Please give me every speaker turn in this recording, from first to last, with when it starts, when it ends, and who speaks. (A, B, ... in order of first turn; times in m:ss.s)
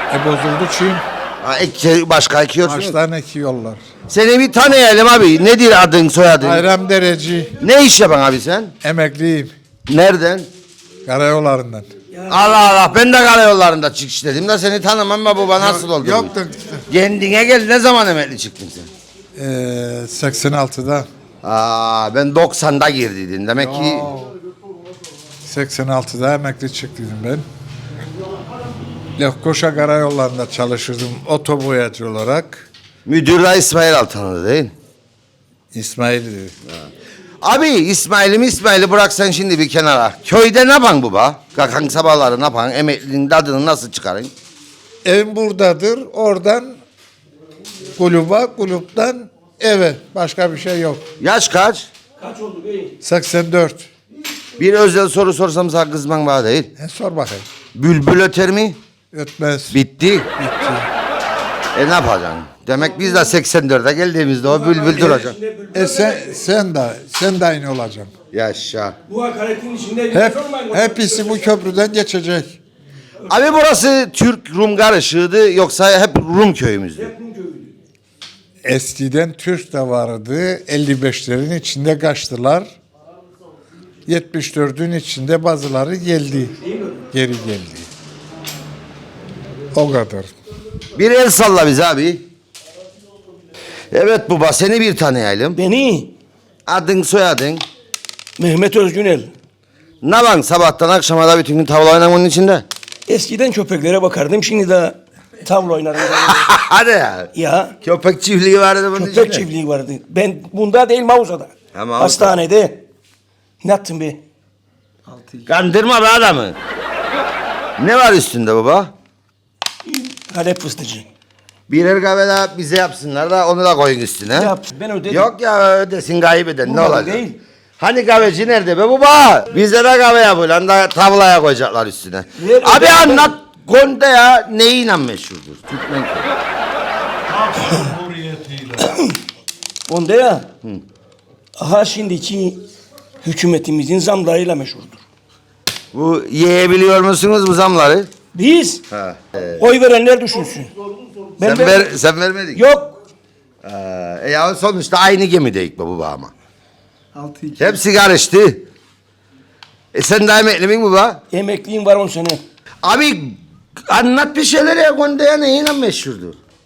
0:00.1-0:01.0 A
0:01.4-0:03.0 B
0:02.6-0:03.8 A
0:04.1-0:06.6 B
0:06.4-0:07.5 A
0:07.6-0:08.7 B
0:08.8-0:09.5 A
0:09.9-0:10.5 B
0:11.1-0:11.9 A
0:12.3-0:16.3 B
0:15.6-0:16.8 A
0:16.9-0:18.9 B
0:19.4-0:21.1 A
0:21.4-0:24.1 B
0:23.6-0:24.3 A
0:25.4-0:27.4 A
0:29.2-0:32.7 A
0:33.1-0:34.7 B
0:35.7-0:36.5 A
0:37.4-0:44.3 B
0:45.0-0:46.8 A
0:48.0-0:51.0 A
0:51.2-0:51.9 B
0:52.2-0:52.9 C
0:53.0-0:53.9 A
0:54.6-0:56.7 B
0:56.8-0:57.4 A
0:57.8-0:58.8 B
0:59.1-0:59.8 A
0:59.7-1:00.3 B
1:00.4-1:00.9 A
1:01.7-1:05.4 B
1:04.5-1:06.2 C
1:05.7-1:08.1 A
1:08.3-1:09.0 B
1:09.1-1:11.5 C
1:10.1-1:12.6 A
1:13.3-1:17.1 B
1:17.0-1:17.7 C
1:18.6-1:22.7 A
1:24.1-1:26.6 A
1:26.6-1:27.0 C
1:27.1-1:27.9 A
1:29.8-1:30.3 A
1:31.0-1:32.2 B
1:33.9-1:35.6 B
1:35.6-1:36.1 C
1:36.7-1:37.6 B
1:38.4-1:39.3 C
1:40.0-1:42.6 B
1:43.1-1:46.5 C
1:46.4-1:47.3 B
1:47.3-1:47.8 C
1:47.8-1:49.4 B
1:49.0-1:52.8 C
1:51.7-1:52.4 B
1:53.6-1:54.2 C
1:55.4-1:56.6 B
1:57.8-1:58.9 B
1:59.9-2:01.1 C
2:01.7-2:04.5 B
2:04.3-2:05.3 C
2:05.1-2:07.2 B
2:06.7-2:07.4 C
2:07.8-2:16.3 B
2:12.4-2:13.3 C
2:18.7-2:19.2 C
2:19.9-2:20.5 C
2:21.6-2:22.6 C
2:23.2-2:25.0 C
2:25.9-2:28.1 B
2:28.3-2:28.8 C
2:28.9-2:29.6 B
2:29.6-2:30.7 C
2:31.4-2:32.0 C
2:31.4-2:32.6 B
2:32.5-2:33.0 C
2:33.6-2:36.3 B
2:37.2-2:37.6 C
2:37.6-2:38.7 B
2:39.9-2:41.2 B
2:41.3-2:42.4 C
2:42.8-2:46.4 B